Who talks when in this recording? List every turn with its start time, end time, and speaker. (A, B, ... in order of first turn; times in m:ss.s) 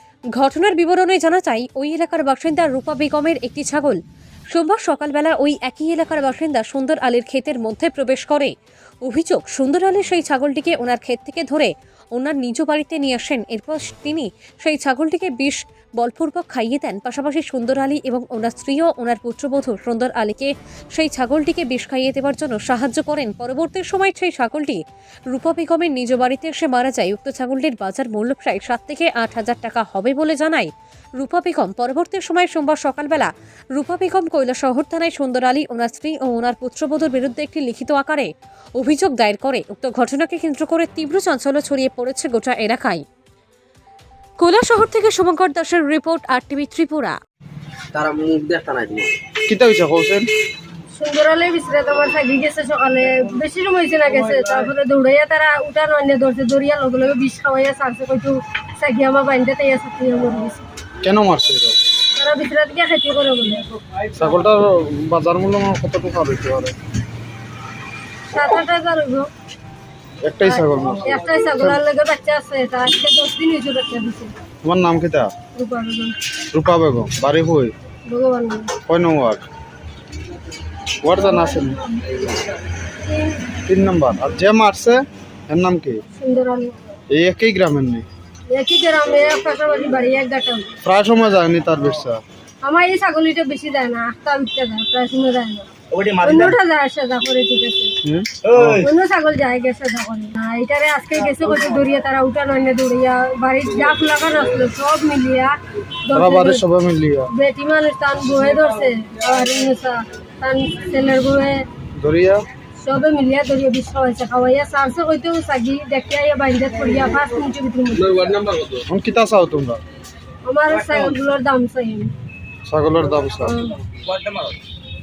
0:00.3-0:04.0 A
0:04.5-0:08.5 A
0:09.0-0:43.0 A
0:44.4-0:47.2 A
0:47.9-0:49.1 B
0:49.4-0:50.2 C
0:50.9-1:00.7 D
1:01.0-1:01.8 C
1:02.1-1:03.6 D
1:04.1-1:06.7 C
1:08.3-1:09.3 D
1:10.2-1:11.8 C
1:10.4-1:14.3 D
1:14.6-1:15.3 C
1:15.5-1:16.1 D
1:16.5-1:17.7 C
1:18.1-1:18.7 D
1:18.8-1:19.4 C
1:21.0-1:21.8 C
1:21.4-1:21.7 D
1:23.0-1:23.5 D
1:23.6-1:26.0 C
1:26.2-1:26.8 D
1:27.1-1:28.0 C
1:28.5-1:30.8 D
1:30.8-1:32.2 C
1:32.6-1:35.7 D
1:35.9-1:36.5 B
1:36.2-1:37.9 D
1:38.0-1:38.8 C
1:38.4-1:38.9 B
1:38.8-1:46.6 D
1:46.1-1:47.3 C
1:47.3-1:51.6 D
1:52.0-1:52.4 C
1:52.8-1:58.3 D
1:58.2-1:58.7 B
1:58.6-1:59.8 C
2:00.4-2:02.1 D
2:00.8-2:01.1 B
2:02.6-2:03.6 C
2:03.4-2:03.7 D
2:04.0-2:04.5 B